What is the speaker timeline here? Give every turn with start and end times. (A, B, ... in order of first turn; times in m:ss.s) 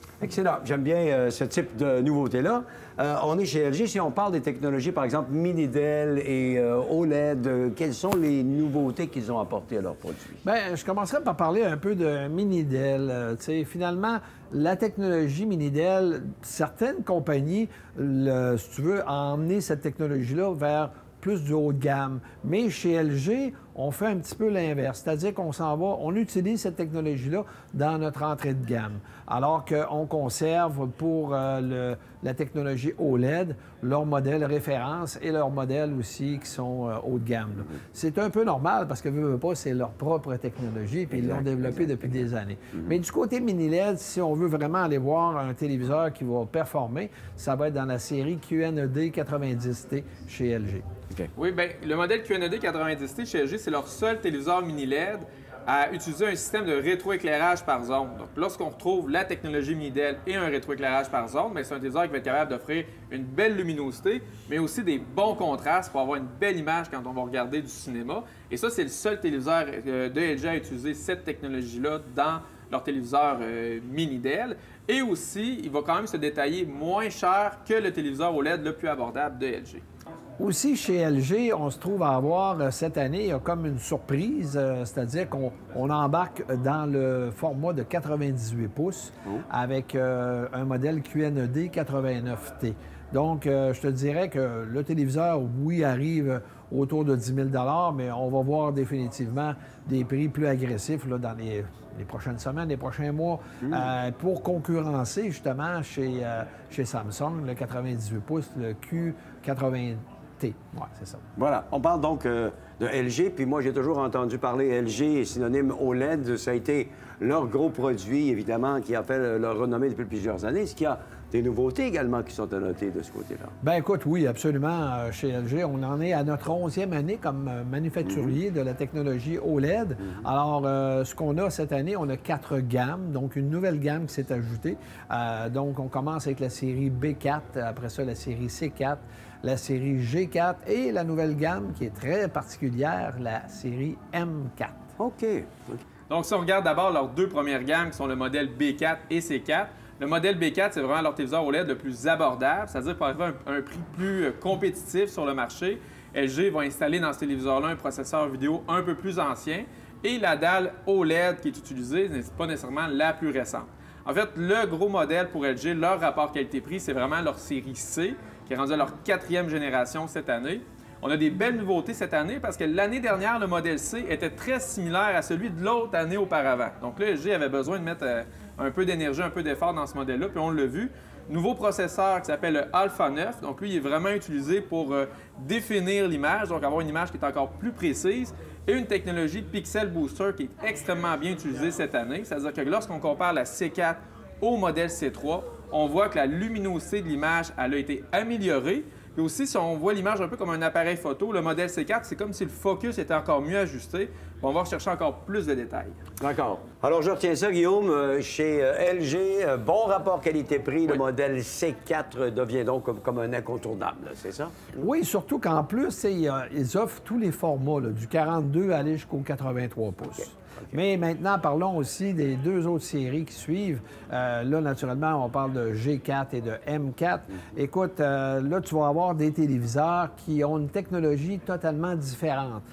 0:00.2-0:10.4 A
0:10.4-0:50.9 B
0:41.1-0:41.4 A
0:51.4-1:19.8 C
1:20.4-1:51.2 B
1:43.6-1:43.9 A
1:51.4-2:03.6 A
2:03.6-2:24.9 B
2:25.0-2:25.8 A
2:26.1-3:26.0 C
3:26.2-3:34.8 A
3:34.8-3:52.6 B